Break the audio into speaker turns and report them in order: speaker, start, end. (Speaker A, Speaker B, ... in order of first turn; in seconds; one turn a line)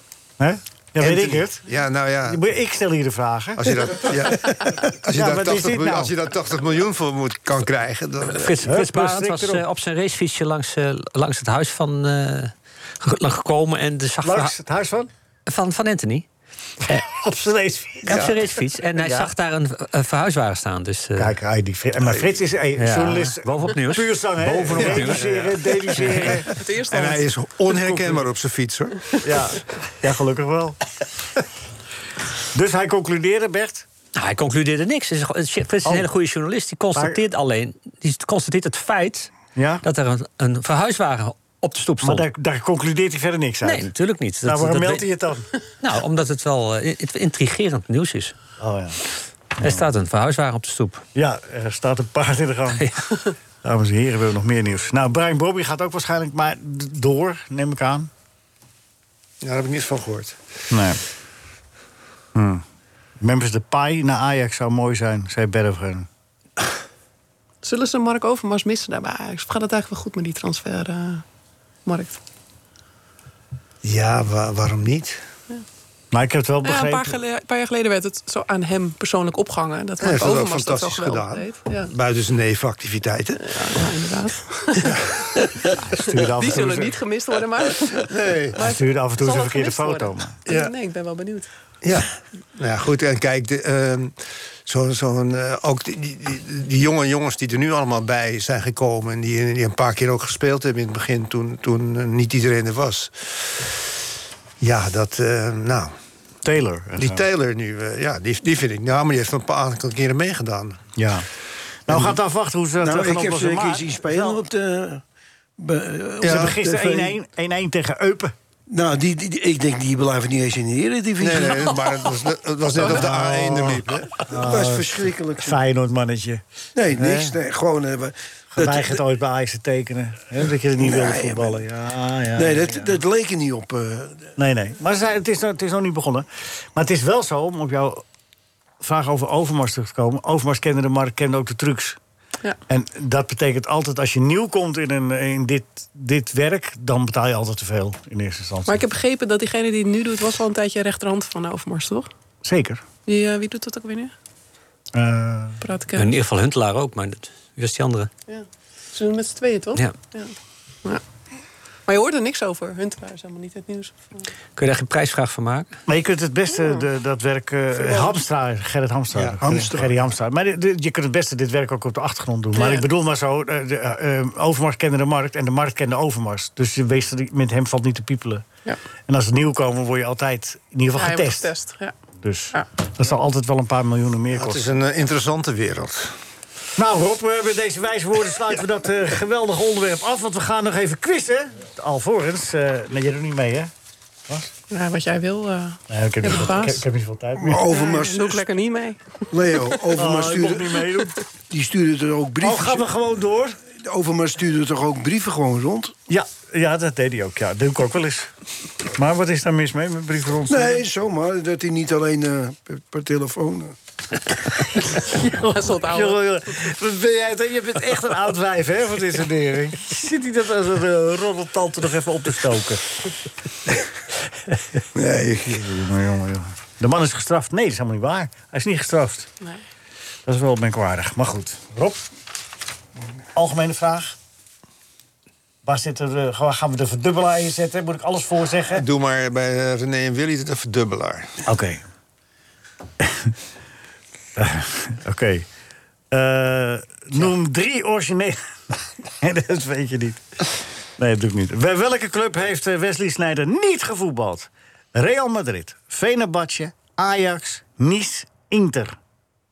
Speaker A: 0.4-1.6
Speaker B: 1.0-2.4
Speaker A: 2.2-3.7
Speaker B: 3.6-8.6
Speaker A: 5.1-6.1
Speaker C: 8.2-14.6
Speaker A: 8.6-9.6
Speaker A: 14.2-15.1
Speaker C: 15.5-16.3
Speaker A: 16.9-18.3
Speaker C: 18.1-21.3
Speaker B: 18.1-18.4
Speaker A: 18.9-19.3
Speaker A: 21.2-26.5
Speaker C: 22.8-26.3
Speaker B: 24.6-25.3
Speaker B: 25.9-29.1
Speaker D: 26.6-27.3
Speaker A: 27.7-28.2
Speaker A: 29.2-30.8
Speaker A: 32.5-33.9
Speaker C: 34.1-42.3
Speaker A: 36.9-37.2
Speaker A: 39.5-39.8
Speaker A: 42.0-43.9
Speaker C: 43.6-45.1
Speaker A: 44.4-45.5
Speaker C: 45.8-48.3
Speaker A: 48.6-49.0
Speaker C: 49.6-51.0
Speaker A: 51.1-52.9
Speaker C: 52.7-53.1
Speaker A: 53.6-58.1
Speaker B: 59.4-60.4
Speaker A: 60.7-61.0
Speaker A: 62.3-62.6
Speaker A: 63.2-66.1
Speaker D: 67.6-71.2
Speaker D: 71.8-72.2
Speaker B: 73.8-75.2
Speaker A: 76.1-77.2
Speaker D: 76.6-81.9
Speaker B: 80.0-83.7
Speaker D: 83.4-91.5
Speaker A: 86.0-87.0
Speaker B: 88.1-88.6
Speaker A: 88.6-90.4
Speaker B: 90.5-90.7
Speaker B: 91.8-103.7
Speaker B: 104.6-105.9
Speaker A: 106.4-107.2
Speaker B: 107.0-110.9
Speaker A: 111.0-111.3
Speaker A: 111.9-114.4
Speaker E: 112.8-115.0
Speaker E: 115.6-117.2
Speaker B: 116.2-116.5
Speaker A: 116.2-118.3
Speaker E: 118.7-121.7
Speaker B: 121.2-124.2
Speaker A: 122.9-126.4
Speaker E: 124.4-125.6
Speaker E: 126.8-129.0
Speaker A: 126.9-127.4
Speaker A: 128.5-132.9
Speaker E: 130.8-131.6
Speaker E: 132.3-134.3
Speaker A: 134.4-138.0
Speaker A: 138.8-142.0
Speaker A: 142.7-148.8
Speaker D: 148.7-152.1
Speaker A: 152.4-152.8
Speaker D: 153.1-154.1
Speaker A: 154.9-155.6
Speaker D: 155.6-156.2
Speaker C: 155.9-158.1
Speaker D: 158.3-160.3
Speaker D: 161.9-164.3
Speaker C: 164.6-165.8
Speaker A: 165.9-178.4
Speaker D: 166.5-166.8
Speaker E: 169.4-169.9
Speaker D: 172.5-172.9
Speaker A: 179.1-181.5
Speaker D: 180.9-181.9
Speaker A: 182.2-184.6
Speaker B: 184.3-186.2
Speaker A: 186.8-193.7
Speaker D: 194.7-196.8
Speaker A: 195.9-197.7
Speaker E: 197.4-198.5
Speaker D: 197.6-199.0
Speaker E: 199.3-200.8
Speaker A: 199.9-201.1
Speaker E: 201.5-202.9
Speaker A: 202.4-203.6
Speaker E: 203.7-205.9
Speaker A: 206.1-208.3
Speaker A: 208.9-210.8
Speaker E: 210.5-213.8
Speaker D: 215.3-216.3
Speaker A: 215.4-222.8
Speaker E: 224.9-225.7
Speaker A: 225.5-229.3
Speaker A: 230.2-232.0
Speaker A: 233.3-234.2
Speaker A: 235.6-238.8
Speaker B: 238.7-241.4
Speaker A: 241.4-241.8
Speaker A: 243.0-243.3
Speaker A: 244.4-245.4
Speaker A: 246.1-248.4
Speaker A: 249.2-250.3
Speaker A: 251.0-259.0